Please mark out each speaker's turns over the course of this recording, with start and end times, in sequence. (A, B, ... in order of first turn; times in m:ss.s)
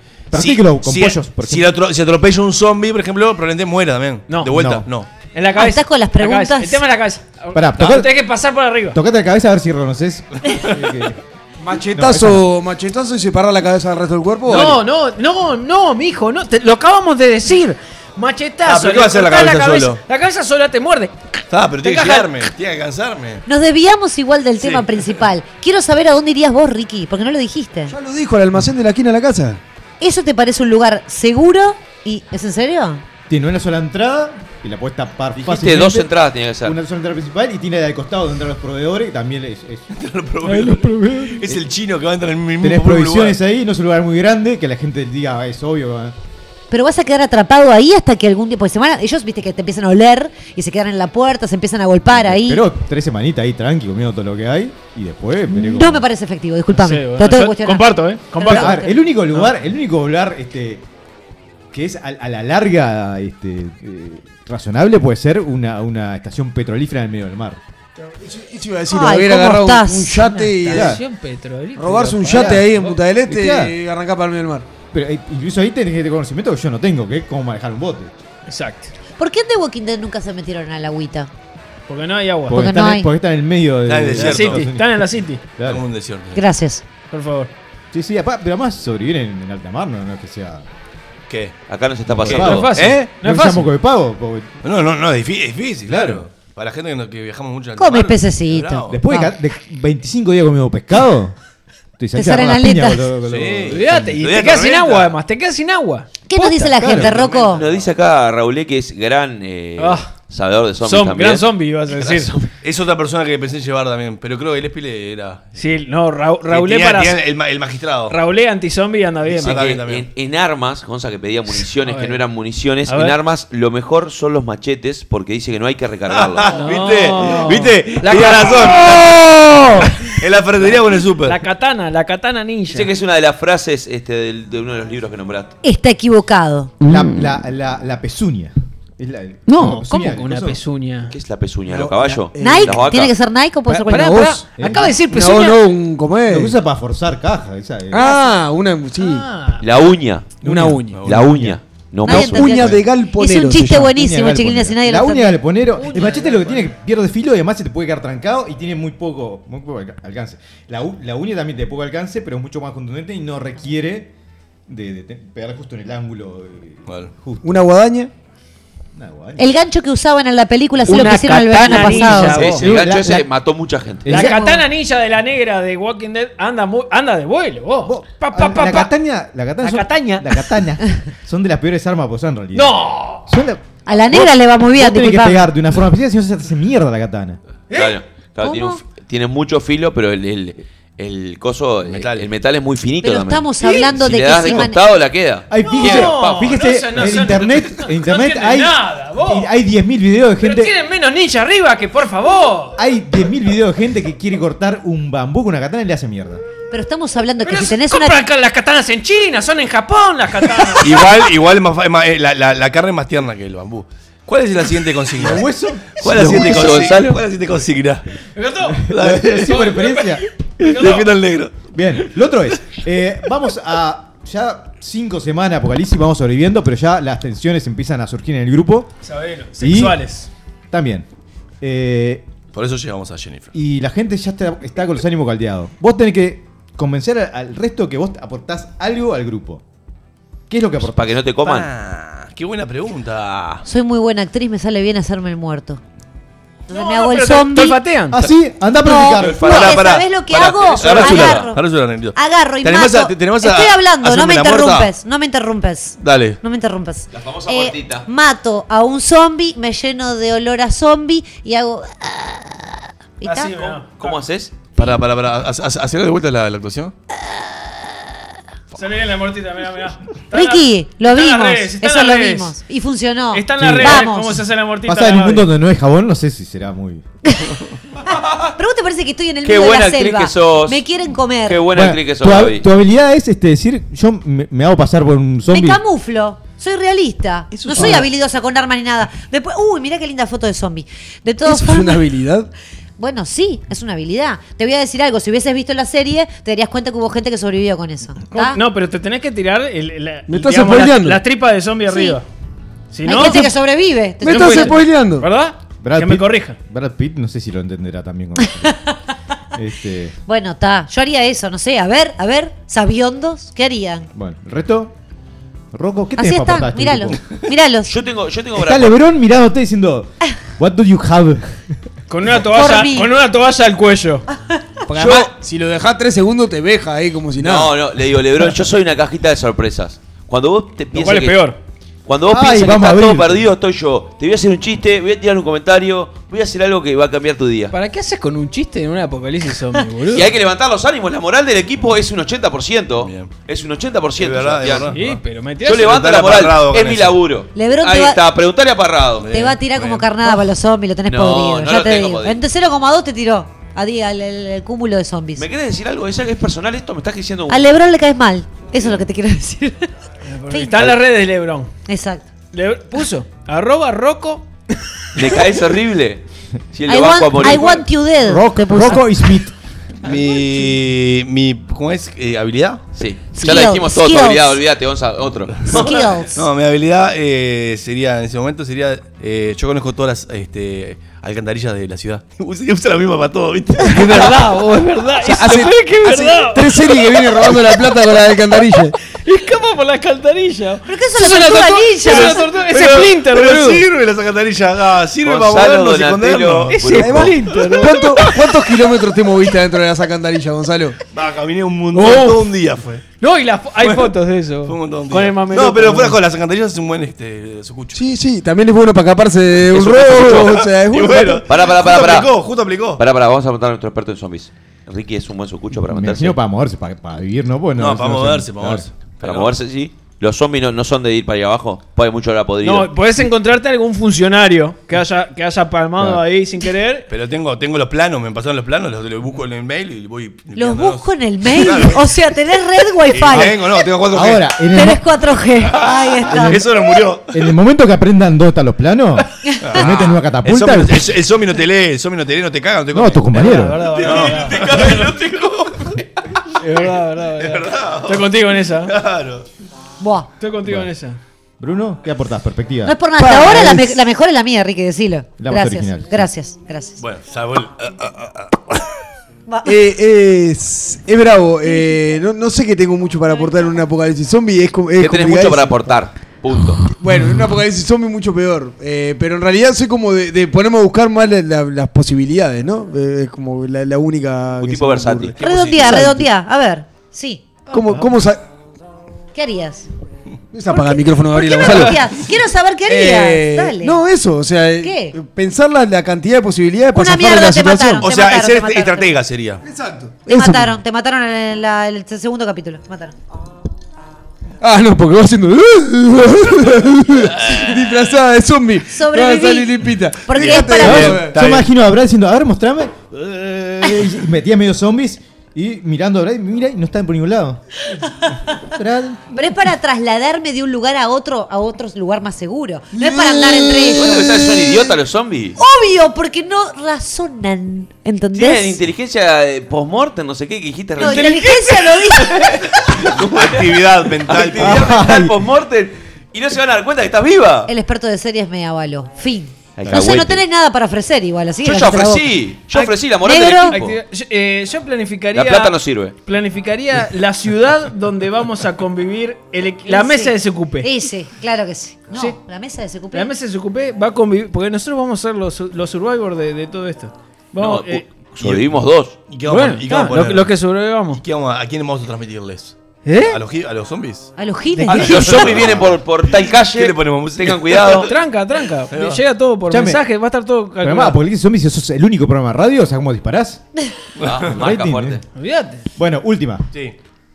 0:00.3-0:01.7 A
0:00.3-0:05.1 B
0:04.3-0:04.6 C
0:04.5-0:04.9 A
0:05.3-0:09.0 C
0:05.6-0:06.8 D
0:07.5-0:08.1 A
0:08.9-0:11.2 A
0:11.6-0:14.8 E
0:11.9-0:12.4 A
0:14.5-0:22.5 C
0:18.6-0:20.0 B
0:21.5-0:23.4 B
0:23.4-0:27.9 D
0:24.6-0:24.8 B
0:27.9-0:29.6 E
0:30.0-0:33.0 D
0:33.3-0:36.1 A
0:35.4-0:36.8 F
0:36.6-0:39.9 A
0:39.9-0:43.4 B
0:40.4-0:41.4 C
0:42.6-0:46.2 A
0:46.7-0:52.6 D
0:52.1-0:56.1 A
0:55.5-0:59.0 D
0:56.7-0:58.8 C
0:58.4-1:00.8 A
1:01.7-1:07.6 A
1:08.0-1:11.0 E
1:08.9-1:10.2 D
1:10.2-1:12.6 C
1:10.7-1:11.0 A
1:11.8-1:14.7 E
1:12.3-1:13.7 A
1:14.9-1:18.1 A
1:18.5-1:18.9 C
1:19.2-1:21.3 D
1:21.9-1:22.6 C
1:22.5-1:25.0 A
1:22.5-1:23.1 D
1:23.9-1:24.6 B
1:24.2-1:25.4 C
1:25.6-1:26.4 B
1:26.3-1:26.8 D
1:27.1-1:27.5 C
1:27.9-1:30.6 A
1:31.3-1:31.6 B
1:31.7-1:32.7 F
1:32.1-1:34.6 A
1:32.3-1:33.1 B
1:32.4-1:33.7 C
1:34.6-1:39.0 B
1:35.9-1:36.2 A
1:37.8-1:39.3 D
1:38.9-1:41.4 A
1:42.0-1:44.2 A
1:42.2-1:43.1 D
1:43.2-1:45.1 B
1:43.7-1:46.7 C
1:46.3-1:47.6 D
1:46.8-1:47.1 A
1:46.8-1:47.8 B
1:47.5-1:51.5 F
1:49.8-1:50.1 C
1:50.8-1:52.3 C
1:52.1-1:55.6 B
1:55.6-1:57.2 C
1:56.5-1:58.2 B
1:58.1-1:59.6 C
1:59.3-2:00.1 B
1:59.4-2:06.6 F
2:01.8-2:02.2 C
2:02.9-2:03.1 C
2:06.1-2:11.4 B
2:06.5-2:08.8 C
2:11.2-2:12.9 C
2:12.7-2:15.6 F
2:15.6-2:16.8 D
2:16.8-2:20.6 A
2:19.5-2:21.1 C
2:21.1-2:23.1 F
2:21.7-2:22.8 E
2:22.4-2:24.4 D
2:23.7-2:24.4 E
2:23.9-2:25.6 C
2:24.6-2:24.9 A
2:25.0-2:26.6 E
2:26.3-2:28.1 A
2:27.9-2:29.2 E
2:29.0-2:29.7 C
2:29.6-2:30.4 F
2:30.4-2:31.0 E
2:30.4-2:31.6 A
2:31.0-2:31.4 B
2:31.0-2:32.8 F
2:32.0-2:35.4 D
2:32.1-2:33.8 E
2:33.7-2:44.1 A
2:35.8-2:36.7 C
2:44.7-2:47.6 A
2:47.4-2:48.1 E
2:48.9-2:49.6 A
2:49.4-2:52.5 D
2:50.8-2:53.3 A
2:50.9-2:52.6 C
2:52.3-2:54.1 F
2:54.0-2:54.4 A
2:54.1-2:54.6 D
2:54.1-2:58.9 C
2:57.8-3:07.4 A
2:59.6-3:00.3 C
3:02.5-3:03.3 C
3:03.9-3:05.5 D
3:07.7-3:08.0 C
3:07.7-3:16.5 F
3:08.4-3:08.8 D
3:11.8-3:12.3 B
3:13.0-3:14.8 D
3:15.5-3:20.7 A
3:15.6-3:19.5 C
3:20.4-3:22.8 C
3:22.8-3:26.4 A
3:26.7-3:28.2 D
3:27.4-3:31.1 C
3:30.8-3:38.0 B
3:35.2-3:36.7 A
3:36.0-3:37.2 F
3:38.4-3:38.9 C
3:38.8-3:40.3 A
3:38.9-3:39.7 B
3:39.4-3:41.1 C
3:40.6-3:41.7 B
3:41.7-3:48.9 A
3:49.0-3:50.3 C
3:49.6-3:50.0 A
3:50.7-3:51.1 A
3:51.6-3:52.3 A
3:52.5-3:53.5 B
3:53.5-3:59.6 A
4:00.5-4:01.2 A
4:00.8-4:01.7 F
4:01.4-4:03.6 B
4:03.6-4:05.8 D
4:06.7-4:07.8 D
4:06.7-4:08.2 C
4:08.1-4:09.8 A
4:08.8-4:23.8 D
4:09.2-4:09.8 F
4:09.3-4:14.9 B
4:10.6-4:11.5 F
4:16.0-4:16.4 B
4:17.1-4:18.1 F
4:23.2-4:24.1 C
4:24.0-4:24.6 F
4:24.7-4:26.9 B
4:28.8-4:32.6 C
4:30.3-4:34.4 D
4:33.3-4:35.5 C
4:33.6-4:34.2 A
4:34.8-4:37.0 A
4:37.3-4:37.6 D
4:38.3-4:41.6 D
4:39.4-4:40.8 F
4:41.4-4:42.6 F
4:41.7-4:45.8 A
4:45.5-4:52.0 D
4:47.5-4:48.1 E
4:51.4-4:52.5 E
4:53.0-4:58.6 D
4:58.3-5:02.3 C
5:00.3-5:01.2 E
5:01.9-5:02.2 D
5:02.9-5:03.5 C
5:03.0-5:04.8 D
5:04.2-5:05.3 E
5:04.2-5:06.6 C
5:05.8-5:08.8 A
5:08.6-5:08.9 D
5:09.5-5:10.1 A
5:10.3-5:14.1 D
5:14.1-5:14.9 A
5:15.7-5:17.2 A
5:16.2-5:17.9 D
5:17.8-5:19.0 F
5:18.6-5:21.7 A
5:22.1-5:24.3 C
5:22.4-5:23.1 D
5:24.9-5:27.8 E
5:27.4-5:31.5 F
5:30.9-5:31.6 C
5:32.1-5:37.7 F
5:32.3-5:33.5 A
5:37.7-5:40.3 C
5:40.1-5:44.9 F
5:43.0-5:43.3 B
5:44.2-5:47.2 B
5:44.9-5:45.9 C
5:45.6-5:49.3 F
5:47.6-5:48.2 D
5:49.2-5:50.1 B
5:49.3-5:55.4 D
5:51.0-5:52.4 F
5:55.4-5:57.6 F
5:57.5-5:59.9 D
6:00.2-6:01.7 C
6:00.5-6:00.9 D
6:01.9-6:02.3 D
6:02.5-6:05.4 C
6:05.1-6:07.8 F
6:06.9-6:09.4 D
6:08.2-6:09.5 A
6:10.0-6:12.8 B
6:13.0-6:15.9 F
6:13.3-6:14.6 D
6:15.7-6:16.4 D
6:15.7-6:24.4 B
6:23.8-6:27.7 C
6:25.2-6:28.9 E
6:29.1-6:33.8 C
6:30.8-6:32.4 D
6:32.0-6:38.3 B
6:35.2-6:37.3 F
6:36.7-6:38.3 C
6:36.9-6:41.0 E
6:41.1-6:43.0 B
6:41.9-6:42.3 E
6:42.0-6:42.4 C
6:43.2-6:46.2 C
6:43.8-6:48.0 B
6:47.9-6:51.5 E
6:49.7-6:53.0 B
6:51.4-6:52.4 F
6:53.0-6:56.4 F
6:55.7-6:58.9 A
6:57.8-6:59.6 B
6:59.2-7:02.9 F
7:02.6-7:07.1 C
7:07.1-7:12.1 B
7:10.6-7:13.8 D
7:13.0-7:14.5 B
7:14.1-7:15.0 A
7:14.7-7:16.6 D
7:15.8-7:17.4 B
7:16.3-7:16.6 A
7:17.3-7:21.1 A
7:19.6-7:23.3 B
7:22.9-7:23.8 A
7:23.3-7:24.9 C
7:23.8-7:26.0 B
7:24.0-7:25.2 F
7:26.6-7:28.9 C
7:27.4-7:29.4 B
7:30.0-7:30.3 D
7:30.4-7:31.2 C
7:31.6-7:33.0 A
7:32.8-7:37.0 D
7:33.1-7:34.0 E
7:35.4-7:36.3 A
7:37.0-7:38.8 B
7:39.5-7:39.7 D
7:39.6-7:45.9 E
7:45.0-7:46.8 F
7:46.9-7:56.3 E
7:54.6-7:56.0 F
7:55.4-7:57.6 D
7:55.4-7:55.9 B
7:57.7-7:58.4 E
7:59.3-7:59.9 D
8:00.5-8:02.2 E
8:00.7-8:04.0 D
8:02.8-8:08.0 E
8:04.8-8:05.2 D
8:06.9-8:09.1 D
8:08.0-8:09.6 B
8:09.6-8:10.8 E
8:10.3-8:13.2 D
8:14.6-8:21.5 E
8:18.9-8:21.3 D
8:20.8-8:27.6 A
8:20.9-8:21.6 B
8:28.7-8:29.5 A
8:29.3-8:34.7 D
8:33.0-8:34.2 E
8:33.9-8:35.6 F
8:35.6-8:38.8 D
8:38.3-8:47.7 F
8:41.0-8:42.6 D
8:42.8-8:44.9 B
8:44.6-8:45.3 A
8:47.7-8:52.3 D
8:49.8-8:50.4 F
8:51.6-8:54.0 F
8:53.2-8:53.8 D
8:53.6-9:00.9 C
8:55.3-8:56.1 F
8:59.8-9:03.3 D
9:03.1-9:08.0 C
9:07.6-9:09.2 F
9:08.4-9:08.7 B
9:09.3-9:10.5 B
9:09.4-9:11.2 C
9:11.1-9:14.3 B
9:13.0-9:13.4 C
9:14.4-9:15.7 D
9:14.8-9:18.1 F
9:14.9-9:18.1 B
9:18.0-9:21.2 C
9:18.9-9:19.2 B
9:19.7-9:20.0 A
9:20.8-9:23.6 A
9:24.2-9:24.5 B
9:24.2-9:25.2 F
9:24.4-9:25.2 A
9:25.4-9:25.8 C
9:26.0-9:26.7 A